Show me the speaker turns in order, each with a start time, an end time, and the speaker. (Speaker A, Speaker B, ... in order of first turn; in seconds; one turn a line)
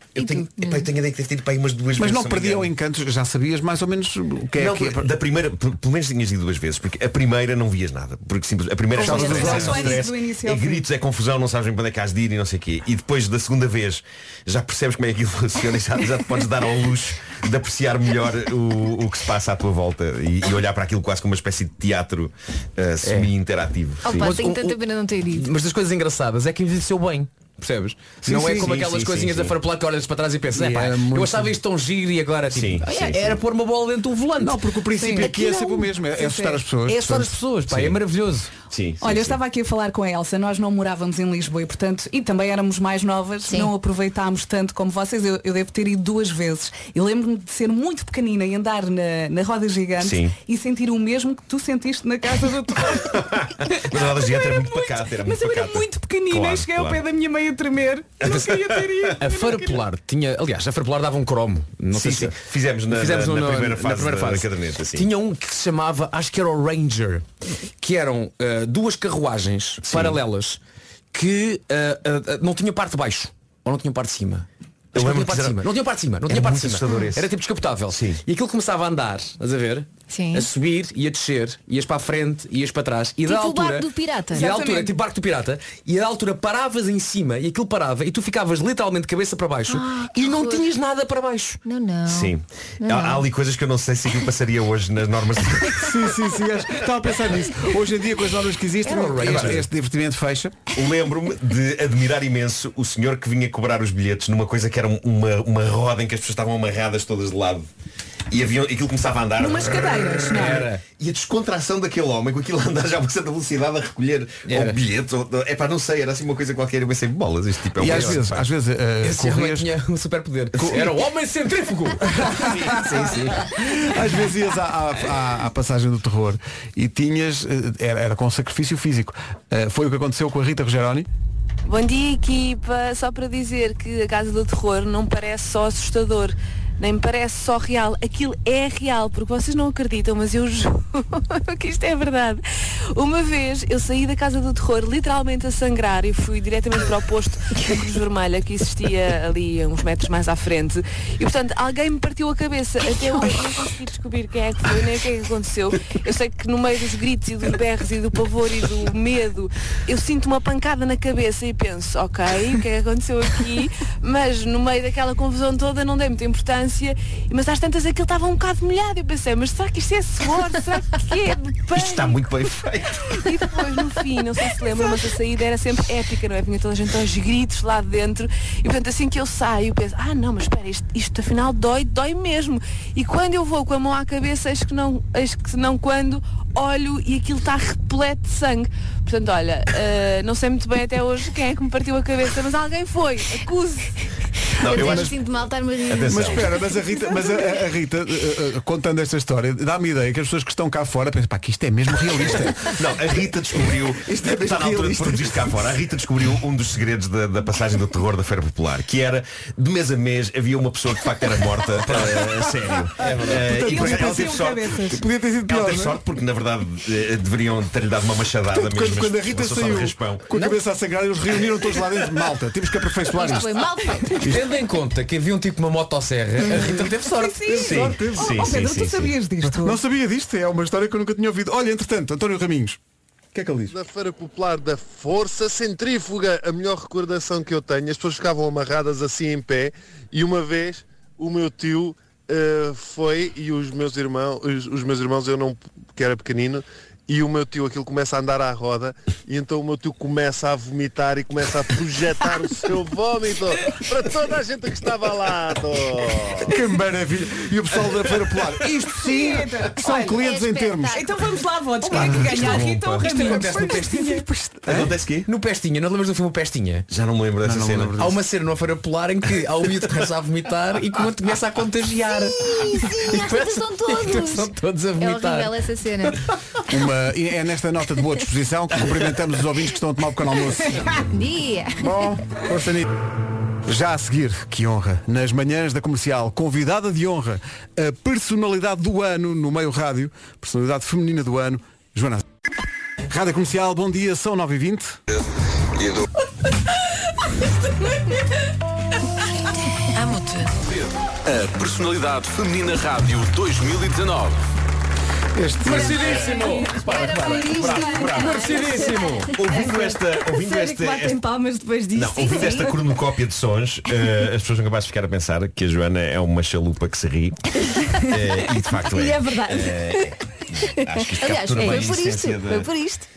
Speaker A: 0.1-0.9
Speaker B: 0.1-2.7
Speaker C: 2.0-5.0
Speaker B: 4.6-24.4
Speaker D: 8.9-10.8
Speaker C: 8.9-10.1
Speaker E: 23.0-23.3
Speaker A: 24.0-25.5
Speaker E: 24.1-24.8
Speaker E: 25.3-34.6
Speaker B: 28.3-29.6
Speaker C: 30.5-31.5
Speaker B: 32.5-33.2
Speaker A: 32.8-33.2
Speaker C: 34.4-37.9
Speaker D: 35.0-36.6
Speaker E: 36.9-38.5
Speaker B: 38.7-39.4
Speaker D: 39.0-59.8
Speaker B: 50.0-50.3
Speaker B: 52.9-57.0
Speaker B: 58.2-59.1
Speaker E: 59.1-67.3
Speaker B: 61.9-65.1
Speaker E: 67.8-70.6
Speaker B: 69.8-70.2
Speaker E: 71.1-91.6
Speaker B: 74.9-75.7
Speaker B: 76.2-77.3
Speaker B: 77.9-78.2
Speaker A: 80.1-80.5
Speaker A: 83.2-84.5
Speaker D: 84.3-84.9
Speaker A: 89.7-90.7
Speaker A: 91.7-93.2
Speaker B: 92.0-96.2
Speaker C: 95.7-100.5
Speaker E: 98.8-99.7
Speaker B: 100.7-107.7
Speaker B: 108.3-118.5
Speaker D: 109.4-110.7
Speaker E: 110.3-110.8
Speaker E: 114.5-114.8
Speaker C: 117.8-119.7
Speaker E: 117.9-118.2
Speaker E: 119.0-123.5
Speaker C: 120.5-121.0
Speaker C: 122.1-131.1
Speaker B: 122.5-123.3
Speaker F: 131.6-172.1
Speaker B: 171.7-173.4
Speaker F: 173.2-194.0
Speaker B: 194.6-195.1
Speaker A: 194.6-196.5
Speaker C: 194.7-195.1
Speaker B: 195.9-196.4
Speaker C: 196.1-202.7
Speaker B: 202.2-214.8
Speaker C: 204.0-205.7
Speaker E: 211.9-212.3
Speaker E: 213.0-213.5
Speaker D: 213.5-215.0
Speaker C: 214.9-216.0
Speaker B: 215.5-220.3
Speaker C: 218.5-224.5
Speaker A: 223.1-224.2
Speaker E: 224.2-227.7
Speaker C: 226.5-226.8
Speaker D: 227.0-229.8
Speaker B: 227.5-229.1
Speaker C: 227.6-228.3
Speaker C: 229.4-232.8
Speaker C: 233.3-233.8
Speaker G: 233.7-256.5
Speaker C: 256.4-261.0
Speaker D: 259.0-260.2
Speaker A: 259.8-261.1
Speaker D: 260.9-264.3
Speaker C: 261.8-263.7
Speaker B: 262.0-262.6
Speaker E: 263.0-264.2
Speaker C: 264.6-264.9
Speaker B: 264.7-265.3
Speaker E: 264.7-266.8
Speaker B: 266.9-268.0
Speaker C: 267.4-268.2
Speaker E: 267.9-275.6
Speaker A: 272.3-276.2
Speaker C: 276.7-281.0
Speaker A: 281.1-281.9
Speaker C: 281.8-282.9
Speaker C: 283.6-292.2
Speaker C: 293.0-295.0
Speaker A: 299.9-300.5
Speaker H: 300.6-304.4
Speaker C: 305.3-306.0
Speaker E: 305.6-309.4
Speaker A: 305.7-309.3
Speaker B: 306.0-306.5
Speaker H: 306.9-307.5
Speaker B: 307.5-308.5
Speaker B: 309.3-311.3
Speaker I: 309.5-312.7
Speaker B: 311.9-322.7
Speaker I: 318.8-320.1
Speaker A: 321.2-323.1